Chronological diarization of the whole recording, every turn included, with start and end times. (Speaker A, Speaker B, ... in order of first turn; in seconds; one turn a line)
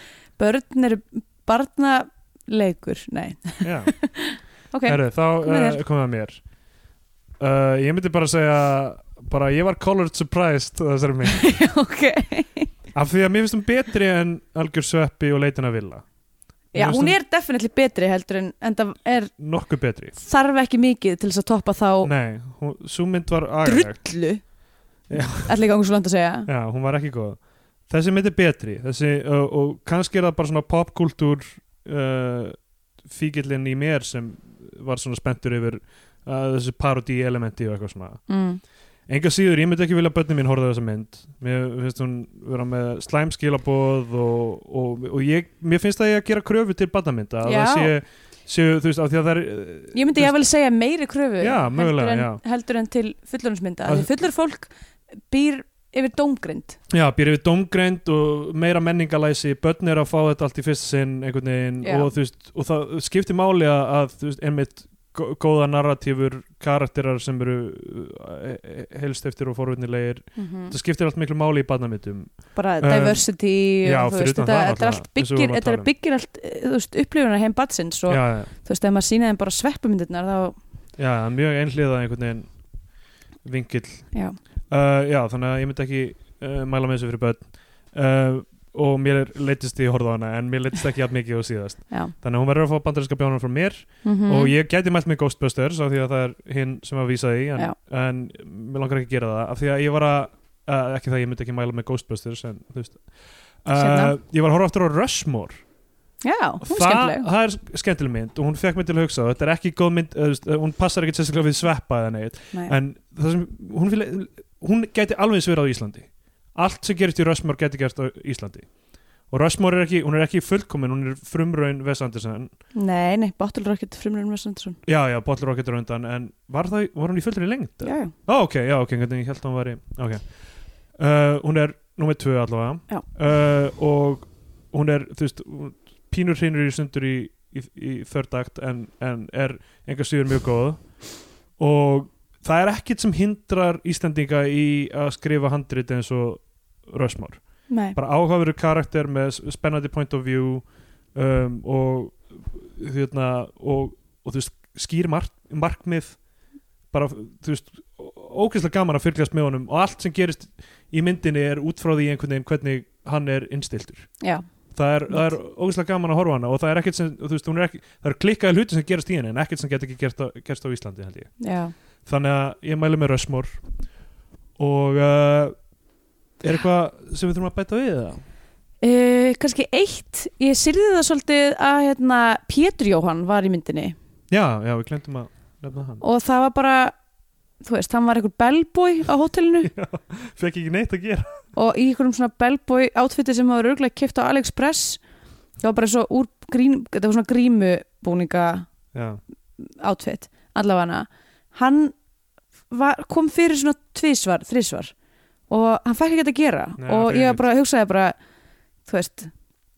Speaker A: 0.4-5.8
Speaker B: 3.6-3.9
Speaker B: 4.8-6.4
Speaker B: 7.4-11.4
Speaker A: 11.3-12.7
Speaker B: 12.9-16.0
Speaker B: 16.7-17.2
Speaker A: 16.7-19.3
Speaker B: 19.4-20.1
Speaker A: 20.2-22.1
Speaker B: 22.0-24.0
Speaker A: 23.6-24.4
Speaker B: 25.1-25.5
Speaker A: 25.4-26.5
Speaker B: 26.5-38.2
Speaker A: 38.3-38.6
Speaker B: 39.1-50.4
Speaker A: 47.4-47.9
Speaker A: 49.9-54.7
Speaker B: 51.4-52.4
Speaker A: 55.3-56.8
Speaker B: 56.9-73.2
Speaker A: 61.8-62.1
Speaker A: 70.3-70.8
Speaker A: 72.5-80.6
Speaker B: 73.8-75.9
Speaker B: 78.1-78.5
Speaker B: 81.0-82.5
Speaker B: 83.4-84.1
Speaker A: 84.1-84.4
Speaker B: 84.7-103.0
Speaker A: 94.0-94.5
Speaker B: 103.6-105.6
Speaker A: 103.7-104.1
Speaker A: 106.2-107.2
Speaker B: 106.6-118.7
Speaker B: 119.3-122.5
Speaker A: 122.7-124.8
Speaker B: 124.8-130.2
Speaker A: 127.8-128.1
Speaker B: 130.9-140.8
Speaker B: 141.6-147.4
Speaker A: 147.7-148.0
Speaker B: 147.9-156.2
Speaker B: 156.9-164.1
Speaker B: 164.7-171.3
Speaker A: 171.4-171.7
Speaker B: 172.1-173.6
Speaker B: 174.6-175.5
Speaker B: 176.4-178.2
Speaker A: 178.8-183.9
Speaker B: 184.3-186.0
Speaker A: 186.0-186.9
Speaker A: 187.6-189.7
Speaker B: 189.6-191.3
Speaker A: 191.5-195.0
Speaker A: 195.6-198.7
Speaker B: 198.9-199.2
Speaker A: 199.6-201.9
Speaker A: 202.7-204.9
Speaker A: 205.5-208.2
Speaker B: 206.8-207.4
Speaker A: 208.8-209.3